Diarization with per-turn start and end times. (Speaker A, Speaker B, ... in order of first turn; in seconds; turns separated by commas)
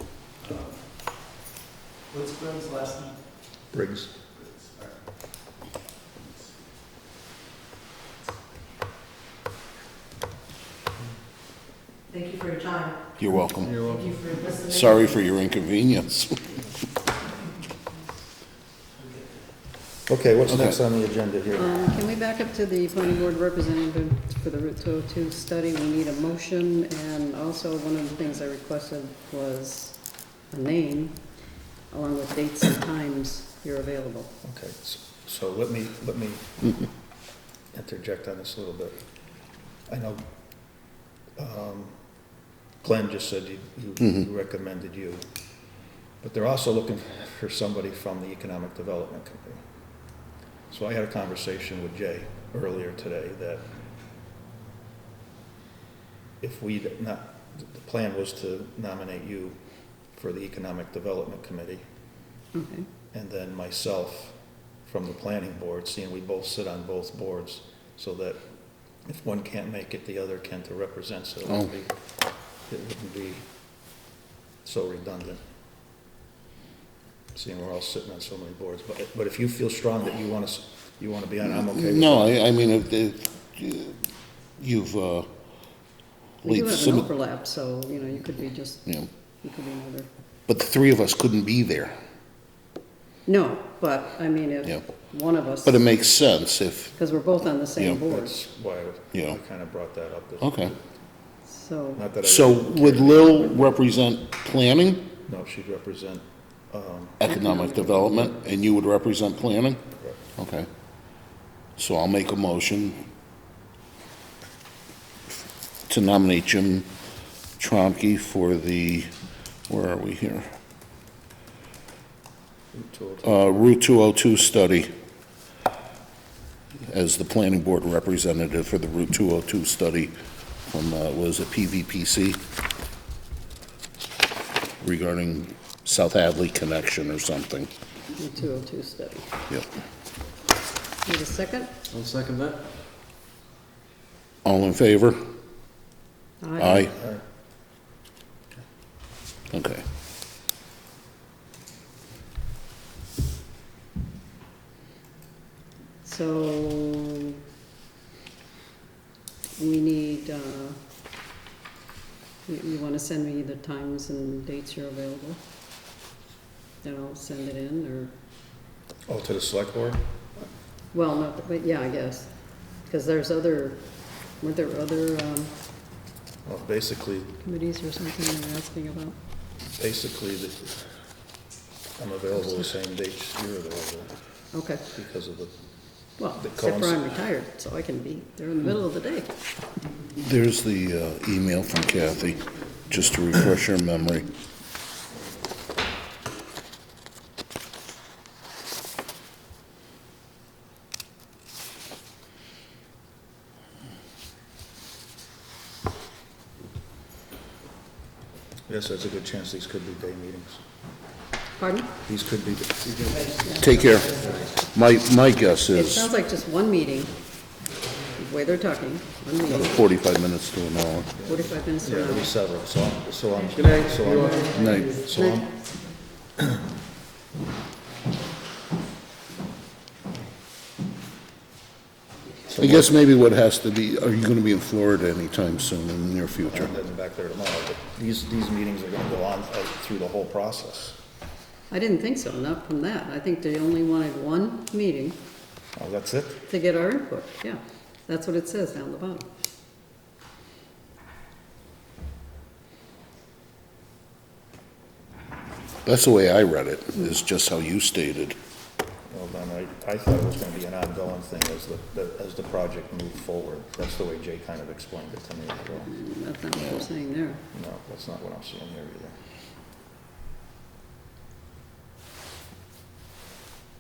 Speaker A: 0.4-0.8, Speaker A: 2.1-3.2, Speaker B: 3.7-4.1, Speaker A: 4.3-5.0, Speaker C: 12.1-13.0, Speaker D: 13.2-16.6, Speaker E: 13.7-14.0, Speaker C: 13.9-15.1, Speaker B: 20.1-22.0, Speaker D: 20.5-20.8, Speaker F: 21.5-31.2, Speaker F: 31.9-34.3, Speaker B: 34.4-36.7, Speaker B: 37.7-39.0, Speaker B: 39.9-40.2, Speaker B: 41.4-42.0, Speaker B: 42.8-45.2, Speaker B: 46.2-49.6, Speaker B: 50.7-53.6, Speaker B: 56.4-59.6, Speaker B: 60.1-61.8, Speaker F: 62.5-62.9, Speaker B: 63.1-68.4, Speaker B: 69.0-71.9, Speaker B: 72.6-73.5, Speaker B: 74.6-75.4, Speaker B: 77.3-82.4, Speaker D: 81.5-85.3, Speaker D: 86.4-87.1, Speaker F: 86.4-90.1, Speaker D: 90.5-92.0, Speaker F: 93.3-95.9, Speaker D: 95.6-97.0, Speaker F: 97.0-98.4, Speaker B: 98.0-100.8, Speaker D: 99.1-99.4, Speaker D: 100.4-100.7, Speaker F: 101.5-102.1, Speaker B: 102.0-103.9, Speaker D: 102.2-105.1, Speaker B: 105.3-107.2, Speaker D: 107.2-109.8, Speaker F: 107.2-108.4, Speaker D: 110.4-110.7, Speaker D: 111.8-113.0, Speaker D: 115.9-116.9, Speaker D: 117.6-119.1, Speaker D: 119.7-120.5, Speaker B: 122.7-123.7, Speaker D: 123.2-124.9, Speaker D: 126.8-130.1, Speaker D: 130.7-132.4, Speaker D: 134.8-137.7, Speaker F: 138.2-139.3, Speaker F: 141.1-141.7, Speaker E: 141.9-142.6, Speaker D: 144.4-145.2, Speaker F: 146.4-146.9, Speaker D: 146.6-146.9, Speaker B: 146.9-147.2, Speaker D: 149.5-149.8, Speaker F: 156.0-157.3, Speaker F: 159.6-160.8, Speaker F: 162.5-165.4, Speaker F: 166.8-168.1, Speaker B: 169.1-170.1, Speaker F: 170.9-173.9, Speaker F: 174.4-175.5, Speaker B: 176.4-177.4, Speaker F: 177.4-179.2, Speaker B: 179.7-180.7, Speaker B: 182.0-184.1, Speaker F: 184.5-184.8, Speaker B: 184.9-185.5, Speaker F: 186.2-189.3, Speaker B: 186.4-187.2, Speaker D: 190.2-194.3, Speaker B: 208.7-210.6, Speaker F: 211.6-211.9, Speaker B: 212.0-213.3, Speaker D: 213.6-216.1, Speaker F: 215.7-217.1, Speaker F: 218.2-219.8, Speaker D: 219.5-221.2, Speaker B: 221.2-225.5, Speaker F: 221.2-222.3, Speaker E: 223.5-224.5, Speaker D: 224.5-225.0, Speaker B: 232.5-232.9, Speaker D: 232.6-236.7, Speaker B: 236.5-241.0, Speaker F: 241.7-245.2, Speaker B: 245.8-246.4, Speaker F: 246.5-249.3, Speaker D: 255.8-258.4, Speaker B: 259.1-265.9, Speaker F: 265.9-267.4, Speaker B: 267.5-269.2